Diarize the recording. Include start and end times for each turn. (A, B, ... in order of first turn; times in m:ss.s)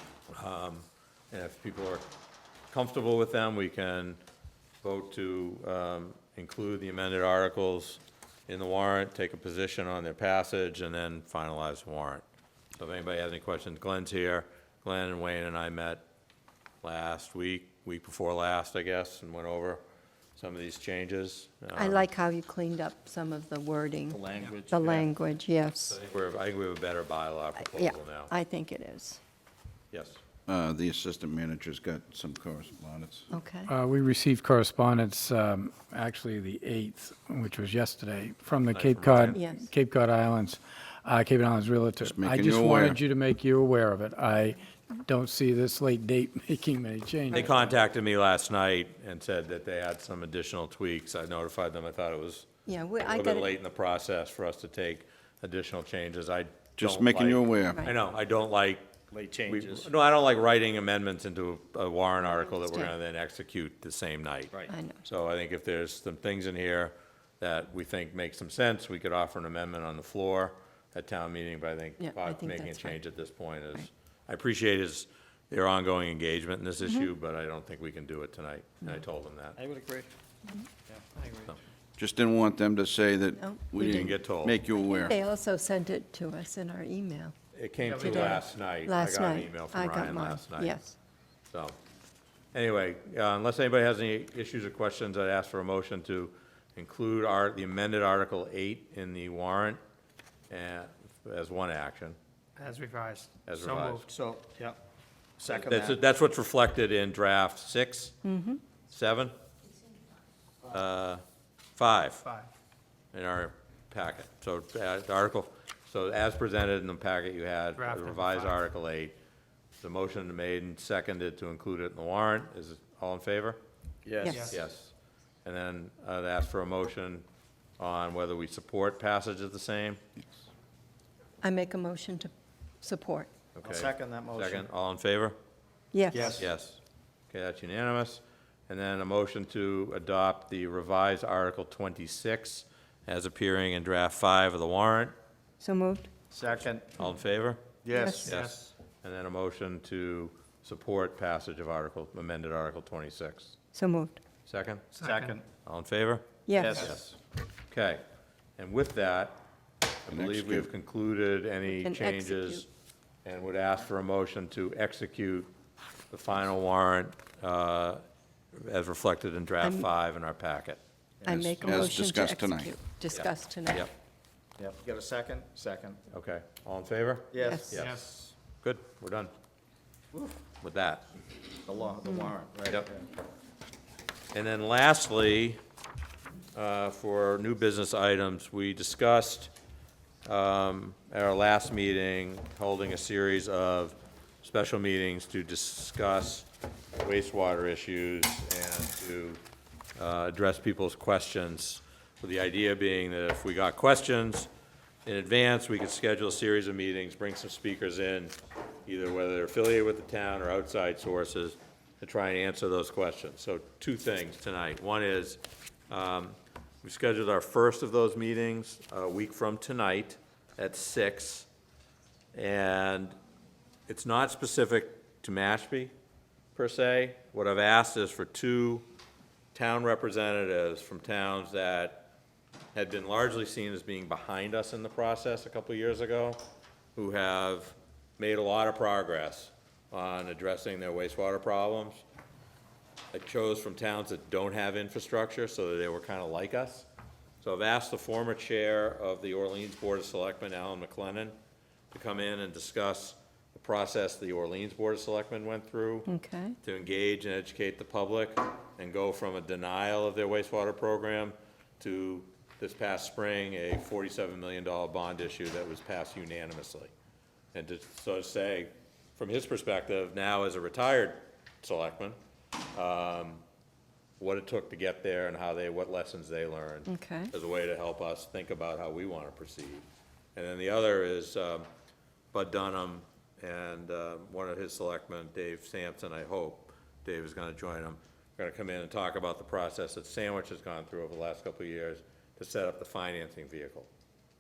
0:00.3-0:02.1 A
0:02.7-0:04.2 A
0:04.8-0:12.2 A
0:12.8-0:16.0 A
0:16.8-0:19.8 A
0:20.4-0:22.0 A
0:21.8-0:26.0 B
0:24.1-0:25.1 C
0:25.8-0:28.3 A
0:27.6-0:29.2 B
0:29.9-0:30.2 A
0:30.5-0:33.3 D
0:33.3-0:33.7 B
0:33.7-0:47.5 E
0:38.7-0:39.4 A
0:39.3-0:39.7 B
0:42.0-0:43.0 D
0:47.3-0:52.5 A
0:52.7-0:53.5 B
0:53.0-0:58.9 A
0:56.8-0:57.8 D
0:59.1-0:59.9 C
0:59.5-1:19.6 A
1:02.5-1:02.9 B
1:04.7-1:05.0 B
1:12.0-1:13.0 B
1:19.6-1:20.1 C
1:22.0-1:25.2 D
1:23.4-1:24.2 B
1:23.8-1:24.6 A
1:24.8-1:27.3 B
1:27.6-1:30.8 A
1:27.8-1:28.4 F
1:28.0-1:31.0 B
1:32.5-1:39.8 A
1:40.5-1:42.2 A
1:42.6-1:44.1 F
1:43.4-1:44.0 A
1:44.1-1:44.8 C
1:45.4-1:46.0 C
1:45.6-1:48.2 A
1:48.2-1:48.6 B
1:48.9-1:49.3 A
1:50.7-1:51.2 A
1:51.8-1:52.3 A
1:53.1-1:59.2 A
1:57.8-1:58.6 F
1:59.8-2:03.6 A
2:04.0-2:04.6 C
2:04.2-2:04.5 B
2:04.3-2:04.6 F
2:04.4-2:04.9 A
2:05.4-2:07.2 A
2:07.8-2:10.0 A
2:11.4-2:12.3 B
2:12.8-2:13.3 B
2:13.6-2:15.4 A
2:13.6-2:14.7 C
2:15.9-2:16.4 B
2:16.1-2:16.5 C
2:16.3-2:25.2 A
2:25.6-2:26.1 B
2:26.3-2:26.9 C
2:27.0-2:33.6 A
2:27.8-2:28.7 C
2:27.9-2:28.4 B
2:33.7-2:34.2 B
2:34.5-2:35.0 A
2:35.0-2:35.4 C
2:35.0-2:35.4 F
2:35.6-2:37.2 A
2:36.5-2:36.9 B
2:36.6-2:37.0 C
2:37.7-2:38.0 A
2:38.6-2:39.4 A
2:40.0-2:42.7 A
2:40.1-2:40.7 D
2:41.7-2:42.6 B
2:43.2-2:45.5 A
2:46.1-2:50.8 A
2:49.6-2:49.9 B
2:51.2-2:51.8 C
2:51.2-2:53.9 B
2:51.6-2:52.7 D
2:53.1-2:53.9 A
2:54.6-2:56.0 C
2:56.1-2:58.1 A
2:57.3-2:58.3 C
2:57.4-2:57.9 B
2:58.6-2:59.3 A
3:00.6-3:01.1 A
3:01.6-3:03.0 C
3:02.1-3:02.3 B
3:04.3-3:05.6 A
3:06.6-3:09.5 A
3:10.2-3:19.4 A
3:20.0-3:24.5 A
3:25.1-3:41.5 A
3:42.3-3:43.2 A
3:43.9-3:45.9 A
3:46.6-3:48.9 A
3:49.5-3:52.1 A
3:52.7-3:56.4 A
3:57.0-4:02.0 A
4:03.1-4:06.9 A
4:07.4-4:11.4 A
4:11.9-4:16.1 A
4:16.1-4:16.6 B
4:16.6-4:26.9 A
4:27.5-4:32.2 A
4:32.7-4:33.4 A
4:34.2-4:41.7 A
4:36.9-4:37.3 B
4:42.3-4:53.9 A